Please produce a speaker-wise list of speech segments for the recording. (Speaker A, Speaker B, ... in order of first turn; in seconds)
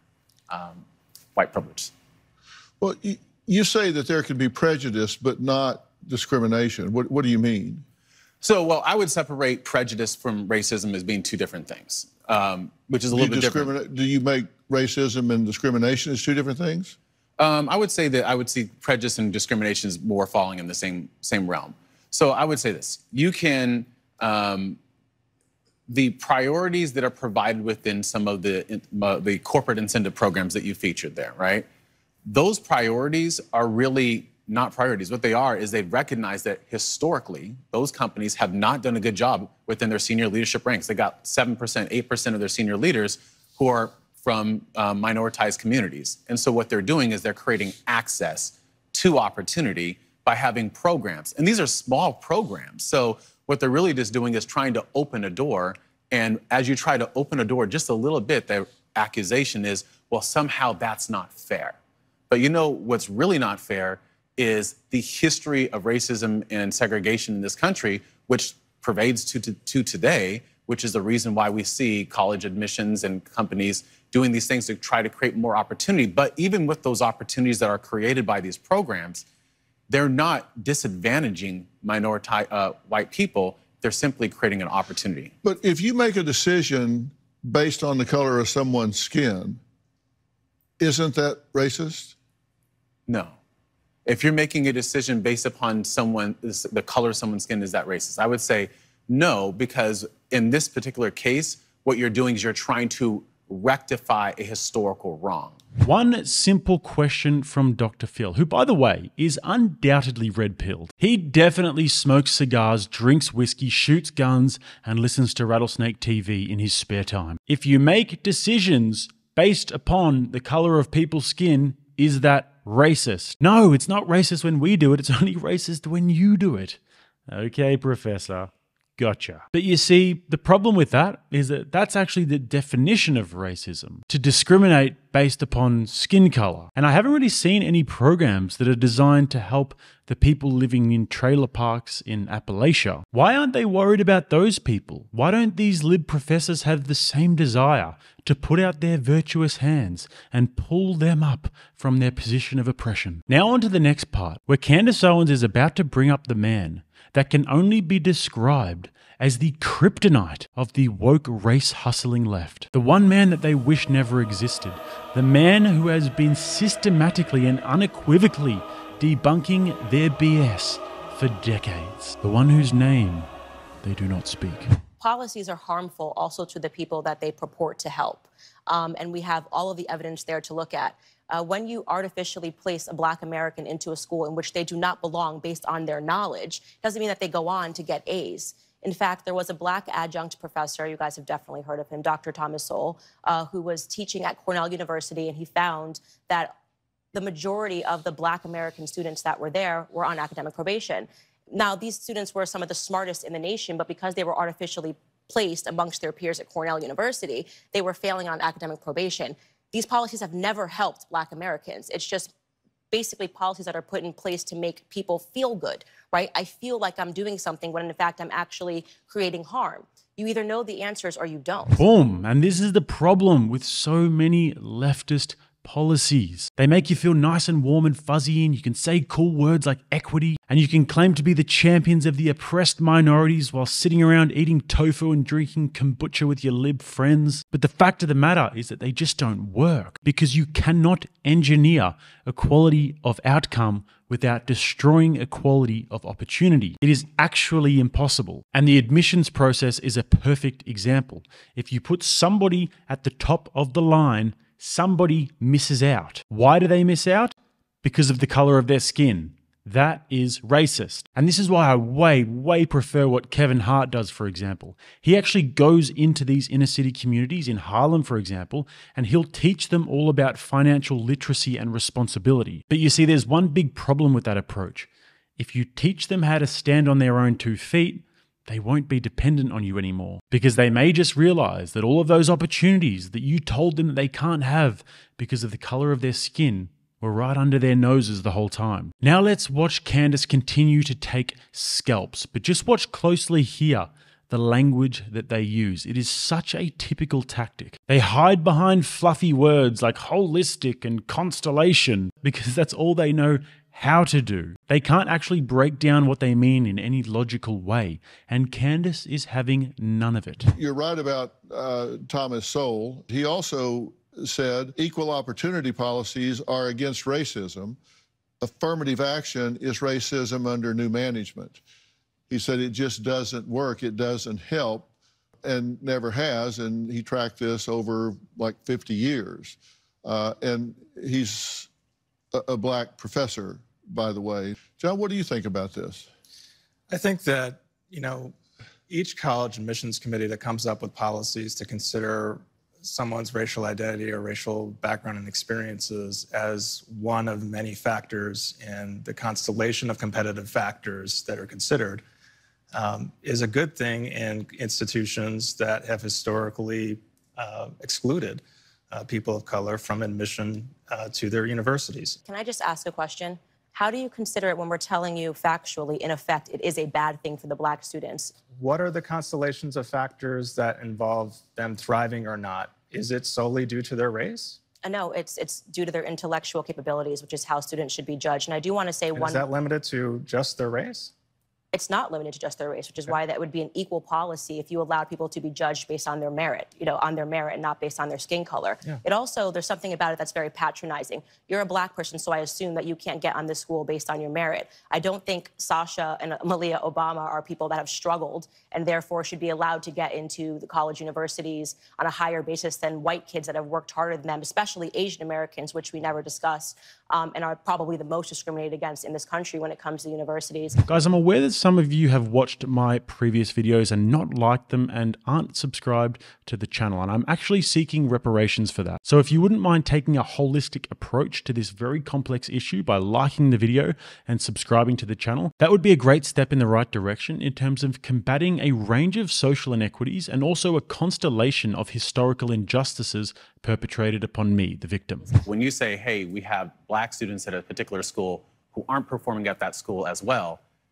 Speaker A: 0.5-0.8, 1.4-1.9, 8.4-13.7, 17.4-24.8, 25.9-31.7, 32.3-61.8, 62.3-79.2, 79.9-85.3, 93.1-93.3, 94.1-105.6, 435.4-440.6
Speaker B: 2.8-7.8, 13.1-17.0, 85.4-89.6, 90.8-92.2, 310.6-317.8, 318.4-321.6, 322.3-324.9, 325.4-331.7, 332.3-336.1
Speaker C: 105.8-173.3, 173.8-174.8, 221.8-310.5, 410.9-435.4
Speaker D: 175.0-196.5, 197.1-212.3, 212.9-221.8, 362.2-368.3, 374.8-379.4, 381.7-410.8
Speaker E: 336.9-338.4, 338.9-352.0, 352.7-362.2, 368.5-374.6, 379.1-381.1